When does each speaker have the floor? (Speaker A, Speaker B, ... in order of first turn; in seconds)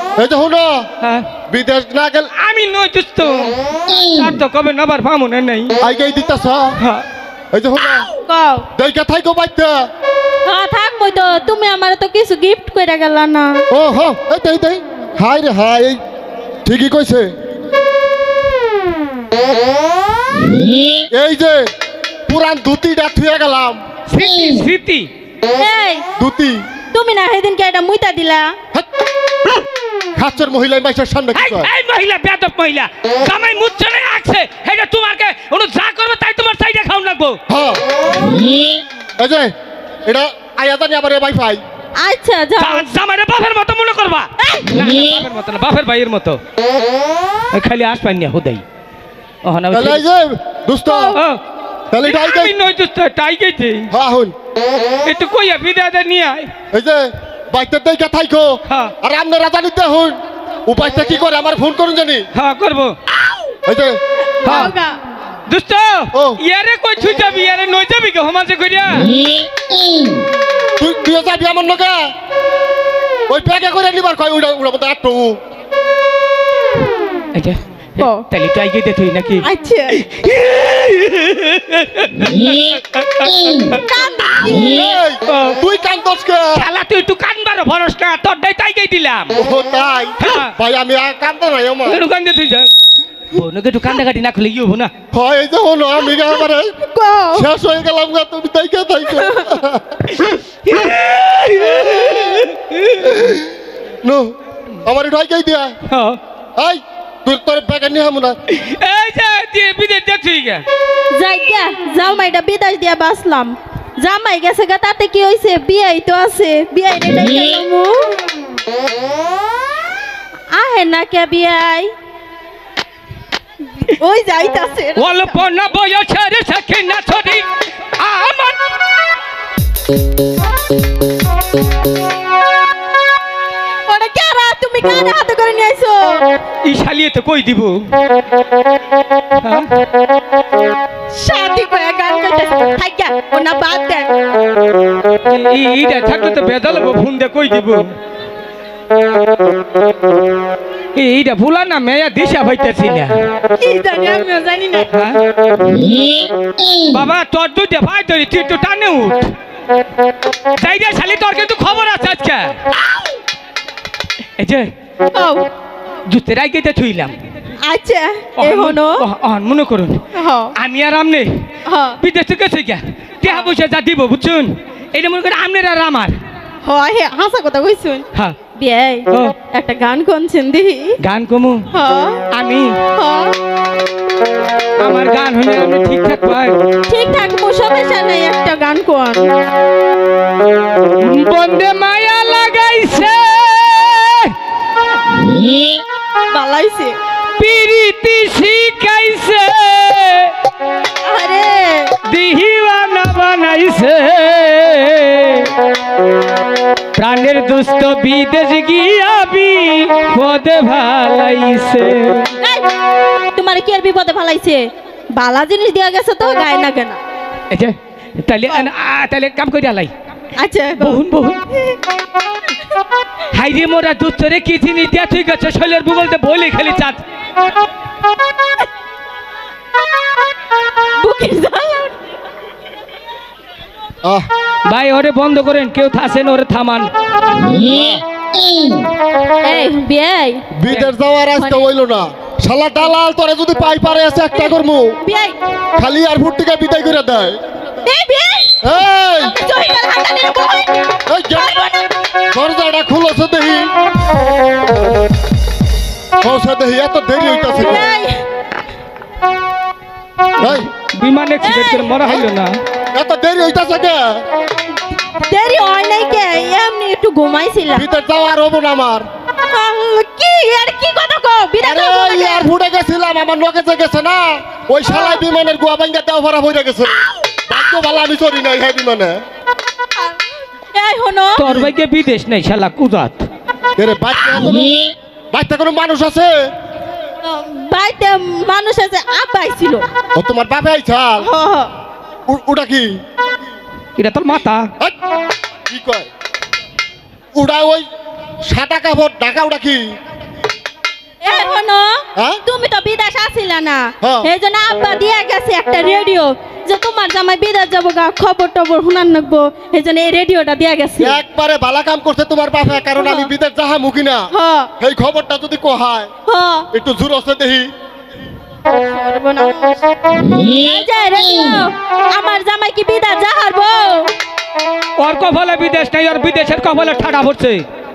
Speaker A: 0.2-0.9, 1.5-2.3, 5.8-6.8, 7.5-8.1, 8.8-9.8, 13.7-16.0, 16.6-17.3, 21.1-21.7, 22.3-23.8, 26.2-26.6, 30.1-31.7, 37.5-37.8, 39.2-39.5, 40.1-41.6, 49.7-51.2, 51.9-52.5, 53.9-54.3, 56.7-62.3, 63.7-64.0, 66.1-66.4, 70.8-72.1, 73.3-75.4, 84.4-86.7, 89.4-92.0, 95.1-96.7, 97.3-100.1, 103.0-103.5, 104.0-105.8, 106.6-108.4, 237.6-238.0, 240.6-245.0, 245.8-247.4, 248.6-249.3, 251.1-251.6, 252.3-253.7, 256.2-257.9, 260.4-260.7, 262.9-264.2, 267.7-269.1, 271.6-279.2, 283.8-286.5, 290.1-291.3, 292.3-293.0, 295.7-296.1, 297.4-297.9, 298.4-299.9, 302.2-302.4, 304.0-304.3, 311.0-314.3, 314.8-316.1, 316.7-317.7
Speaker B: 1.0-1.3, 2.4-5.7, 6.8-7.0, 24.1-25.1, 31.4-37.4, 42.6-46.4, 47.5-48.6, 49.4-50.0, 51.1-51.4, 52.0-53.9, 55.0-56.5, 58.7-58.9, 62.3-63.0, 64.4-64.8, 65.5-69.2, 77.3-83.8, 85.3-85.6, 86.5-89.3, 90.2-90.5, 91.9-92.7, 93.3-94.9, 100.7-103.1, 105.9-106.2, 108.5-110.7, 125.0-128.7, 136.6-137.9, 139.4-139.7, 145.2-147.9, 150.9-153.2, 154.9-155.2, 156.8-159.3, 160.6-162.6, 164.4-164.7, 166.1-167.2, 168.4-170.0, 170.6-171.4, 172.0-176.2, 181.0-181.6, 182.3-182.8, 184.8-186.6, 191.0-194.3, 197.4-200.3, 202.1-205.5, 207.0-212.3, 217.5-219.9, 220.8-221.5, 223.3-227.0, 234.7-236.9, 260.4-262.6, 281.4-283.3, 294.0-294.7, 325.0-327.6
Speaker C: 8.2-8.7, 10.5-13.6, 25.5-26.0, 26.9-28.6, 42.0-42.9, 44.4-44.8, 50.9-51.2, 64.4-65.0, 78.0-78.2, 79.4-80.1, 83.8-84.6, 96.8-97.5, 99.1-99.6, 111.1-118.2, 120.5-121.9, 123.8-125.4, 133.9-136.2, 141.1-144.2, 153.6-154.9, 165.1-165.5, 167.6-169.1, 170.2-170.5, 171.7-172.0, 176.6-181.0, 181.7-182.2, 182.9-183.3, 186.9-189.3, 196.3-197.0, 201.0-201.9, 212.4-212.7, 213.3-217.0, 220.4-221.0, 231.0-231.9, 239.4-240.5, 241.3-241.7, 244.3-245.4, 247.8-250.7, 251.3-251.9, 257.5-258.2, 261.4-262.2, 265.1-267.9, 269.4-272.5, 274.9-275.2, 280.0-281.5, 287.2-289.9, 291.2-291.7, 301.2-311.2, 313.0-313.3, 314.3-314.7, 316.3-316.7, 318.7-324.1